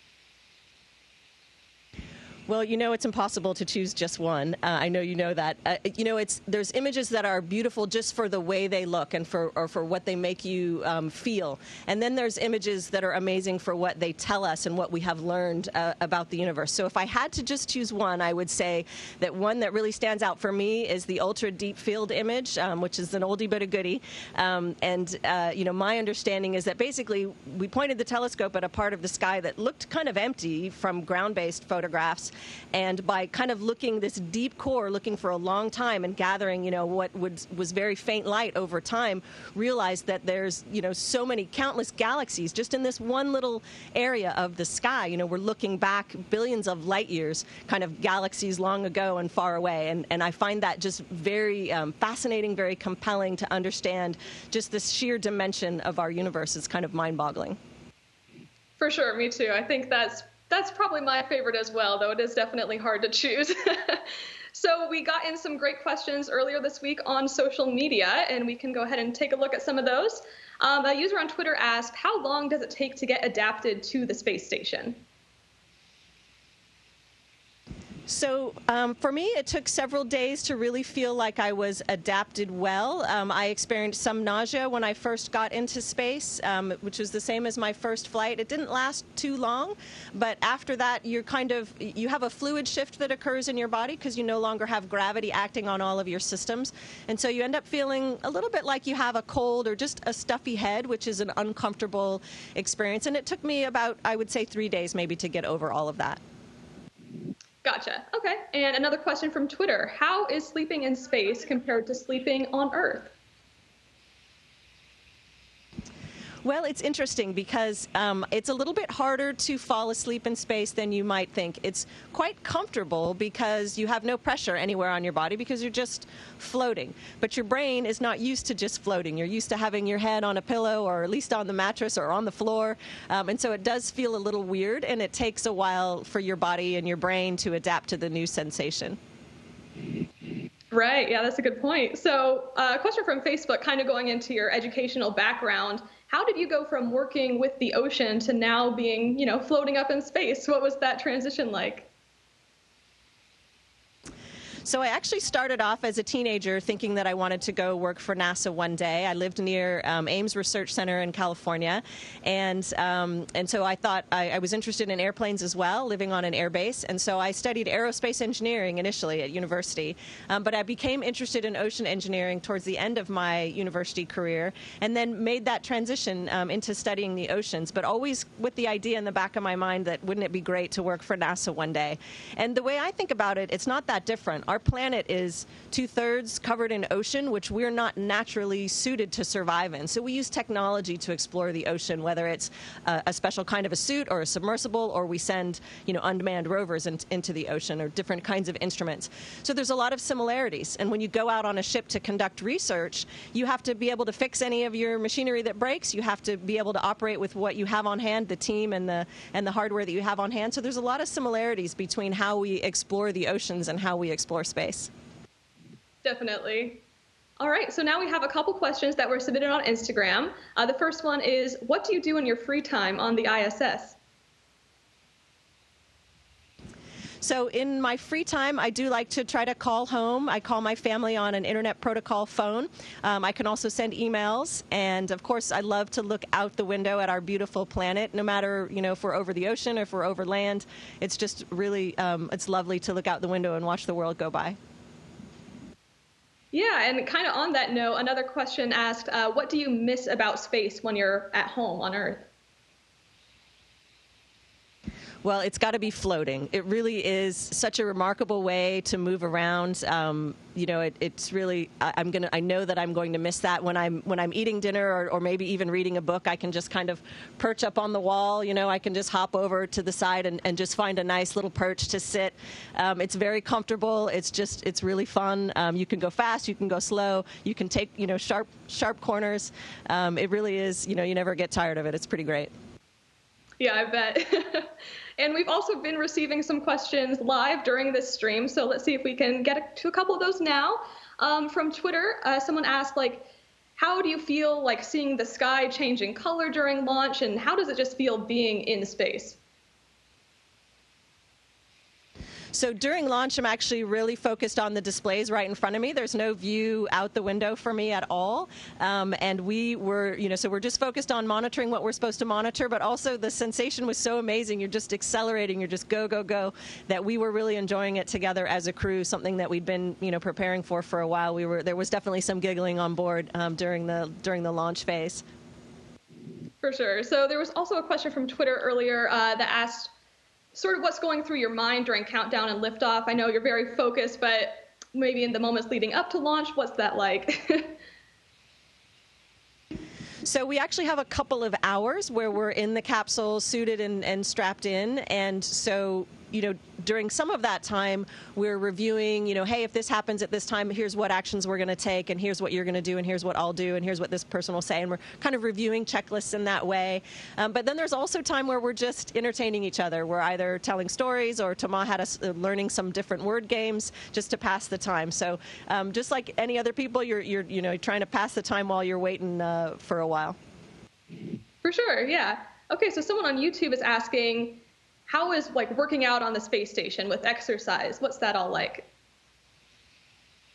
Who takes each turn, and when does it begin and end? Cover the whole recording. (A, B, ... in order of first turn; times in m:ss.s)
0:02.5-0:57.6 A
0:58.8-1:15.0 B
1:18.1-1:46.2 A
1:47.6-1:53.1 B
1:56.4-2:19.0 A
2:20.7-2:31.9 B
2:34.6-3:34.9 A
3:36.0-3:36.8 B
3:37.4-3:44.0 B
3:47.2-4:04.6 A
4:06.5-4:12.3 B
4:15.2-4:42.5 A
4:43.6-4:59.4 B
5:02.5-5:25.2 A
5:26.6-5:29.9 B
5:30.5-5:37.8 B
5:40.2-6:10.4 A
6:11.6-6:18.9 B